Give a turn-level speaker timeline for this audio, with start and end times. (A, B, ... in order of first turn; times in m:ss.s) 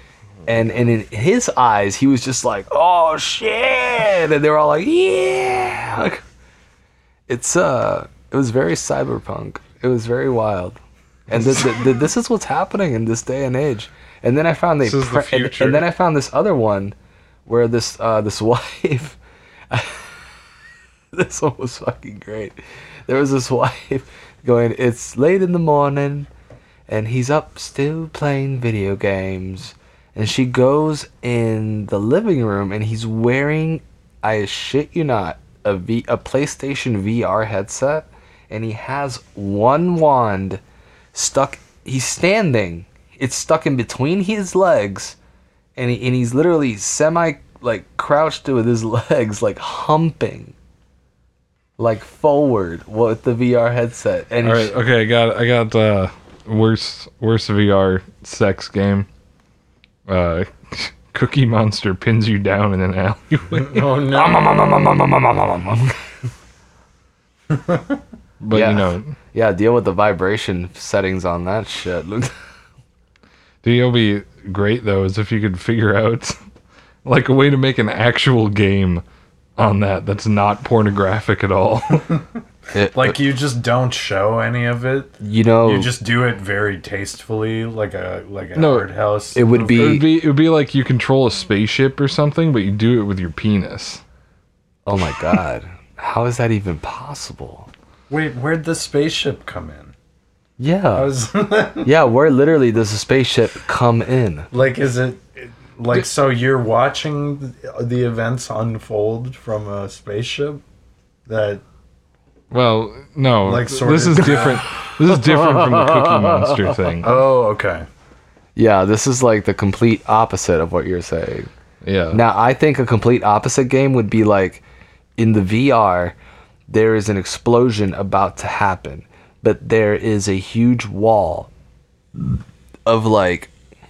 0:00.4-0:06.2 A
0:07.3-0:10.8 A
0:11.3-0:16.9 A
0:14.8-0:15.8 B
0:17.4-0:19.2 A
0:19.7-0:20.3 A
0:21.1-0:26.3 A
0:26.9-0:40.6 A
0:41.1-0:45.2 A
0:45.8-0:50.5 A
0:51.8-0:54.7 A
0:54.4-0:59.1 B
1:00.1-1:03.9 B
1:03.5-1:04.6 C
1:04.1-1:06.0 A
1:07.5-1:07.9 C
1:08.4-1:09.1 B
1:08.5-1:12.3 A
1:13.6-1:16.4 B
1:17.0-1:19.0 B
1:19.6-1:22.2 B
1:22.7-1:23.2 A
1:22.9-1:30.0 C
1:25.2-1:25.9 A
1:28.6-1:28.9 B
1:29.3-1:30.0 A
1:29.7-1:34.0 B
1:34.8-1:37.7 A
1:38.1-1:39.9 C
1:40.6-1:41.1 A
1:40.9-1:41.9 C
1:41.8-1:44.5 A
1:44.5-1:50.6 C
1:51.3-1:51.6 C
1:52.5-1:57.1 B
1:53.4-1:54.6 C
1:54.9-1:56.8 A
1:57.0-1:57.8 C
1:58.6-2:01.5 A
2:01.8-2:02.2 B
2:02.1-2:04.6 A
2:05.2-2:06.1 A
2:06.7-2:11.5 A
2:12.8-2:13.5 A